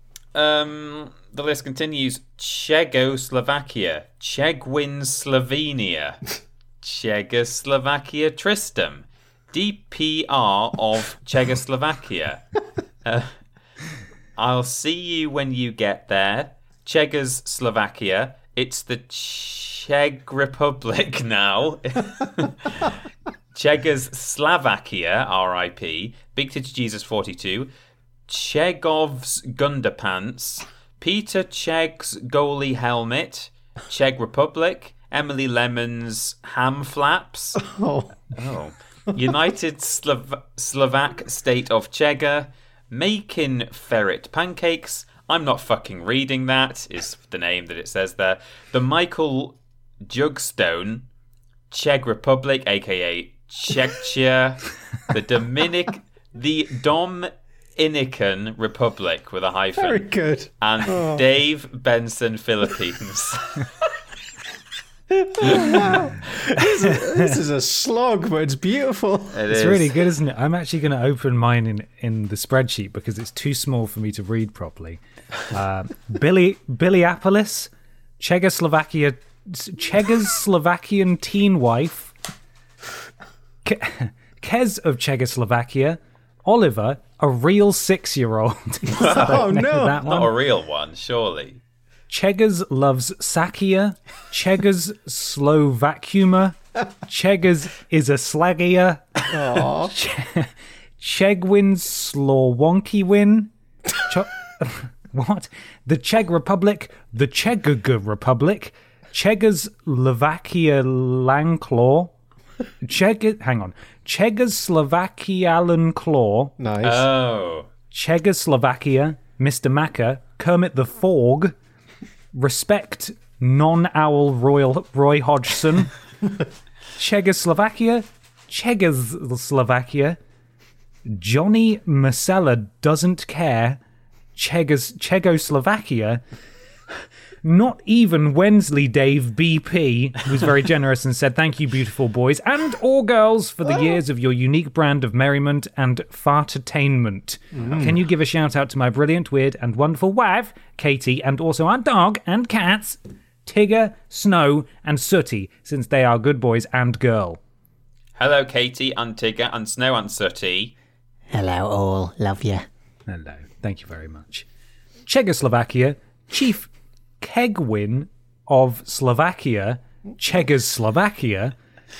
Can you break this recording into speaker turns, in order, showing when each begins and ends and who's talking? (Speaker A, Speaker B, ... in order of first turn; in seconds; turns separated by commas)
Speaker A: 0.3-6.2, Speaker A: 6.8-13.3, Speaker A: 14.3-23.0, Speaker A: 23.5-27.7, Speaker A: 28.3-37.6, Speaker B: 37.6-38.2, Speaker A: 38.3-51.1, Speaker A: 51.7-63.7, Speaker B: 59.8-61.2, Speaker B: 65.1-69.8, Speaker A: 65.5-66.0, Speaker C: 66.8-67.3, Speaker A: 69.3-70.0, Speaker C: 69.5-82.1, Speaker C: 83.6-90.3, Speaker A: 88.9-91.6, Speaker B: 89.0-90.0, Speaker C: 92.1-112.1, Speaker B: 99.3-99.9, Speaker C: 112.8-116.5, Speaker B: 116.6-117.1, Speaker A: 116.8-117.7, Speaker C: 117.9-121.5, Speaker C: 122.3-125.9, Speaker C: 127.0-130.2, Speaker C: 131.1-133.8, Speaker C: 134.3-136.2, Speaker C: 137.4-157.4, Speaker B: 147.5-148.0, Speaker A: 158.2-160.7, Speaker B: 161.3-162.7, Speaker C: 163.1-164.5, Speaker C: 165.1-171.5